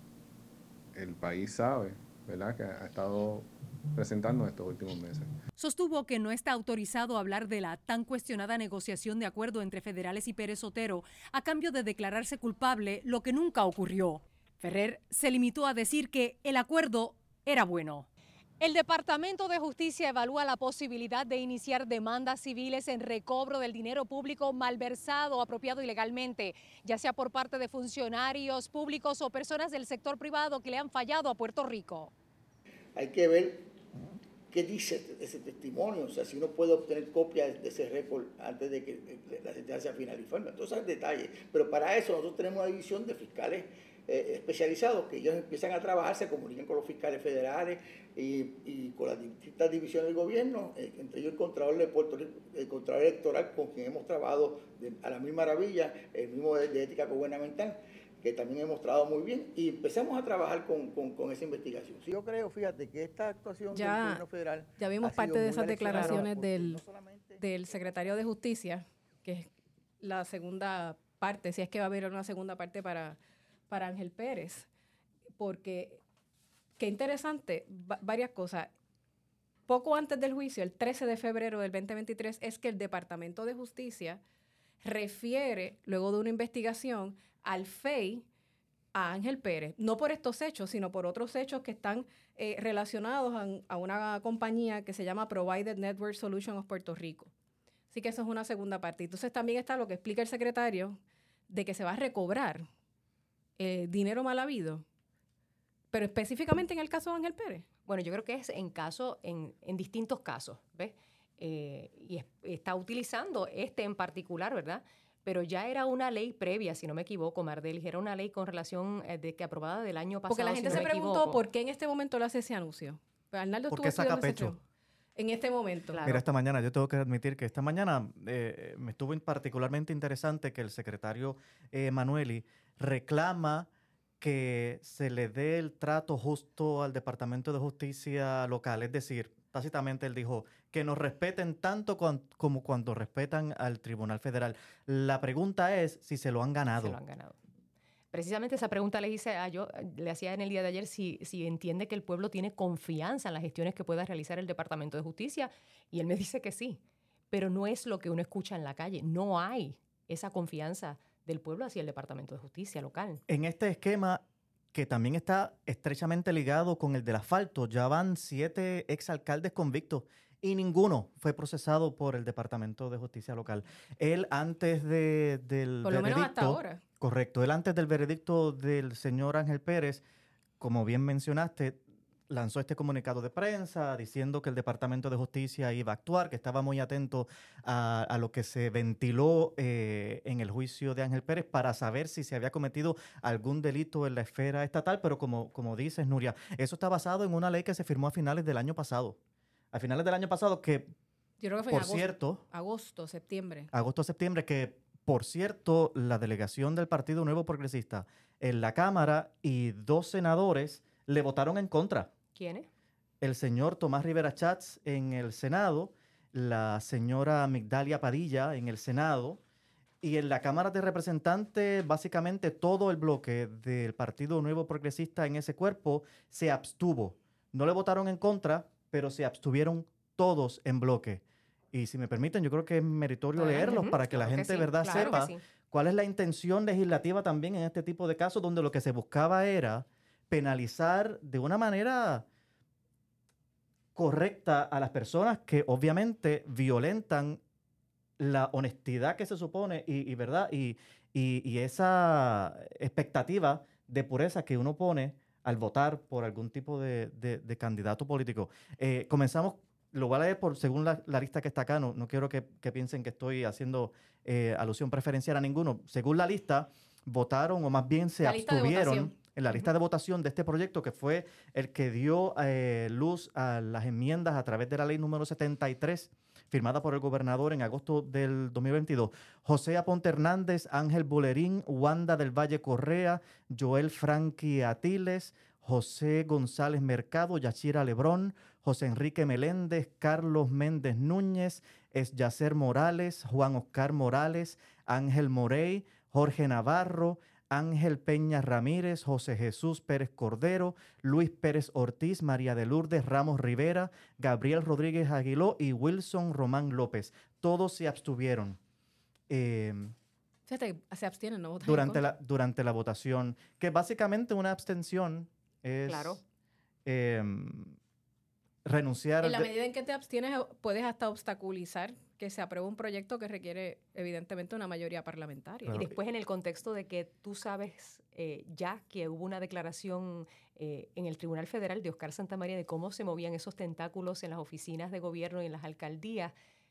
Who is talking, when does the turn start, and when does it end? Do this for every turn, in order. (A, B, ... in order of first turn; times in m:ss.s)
0:00.9-0:05.3 A
0:05.6-0:18.1 B
0:18.6-0:32.1 B
0:33.0-0:33.7 C
0:34.5-1:08.2 C
1:03.7-1:04.2 D
1:04.8-1:06.8 D
1:05.9-1:06.2 E
1:07.4-1:09.5 D
1:10.0-1:13.2 D
1:13.7-1:14.7 D
1:15.4-1:16.0 D
1:16.8-1:18.7 D
1:19.7-1:24.2 D
1:24.8-1:28.2 D
1:28.9-1:37.3 D
1:37.9-1:42.6 D
1:43.6-1:44.8 D
1:45.9-1:47.6 D
1:47.8-2:01.4 E
2:00.3-2:04.6 D
2:03.7-2:04.6 F
2:05.2-2:06.0 D
2:05.9-2:06.2 E
2:06.0-2:13.7 F
2:14.2-2:27.0 F
2:26.8-2:27.4 E
2:28.1-2:36.8 E
2:37.3-2:43.2 E
2:43.3-3:00.0 F
2:55.8-2:56.8 D
3:00.6-3:19.2 F
3:19.7-3:20.9 F
3:21.4-3:23.7 D
3:21.7-3:22.4 F
3:23.7-3:32.1 F
3:32.4-3:32.7 E
3:33.2-3:39.4 F
3:40.0-4:02.2 F
3:53.4-3:55.4 E
4:04.0-4:07.4 F
4:08.2-5:08.6 F
4:28.2-4:29.1 D
5:09.3-5:09.9 F
5:10.5-5:12.0 D
5:11.6-5:16.2 F
5:15.9-5:16.2 E
5:16.8-5:17.8 F
5:18.6-5:19.5 F
5:19.2-5:25.8 D
5:25.7-5:36.3 E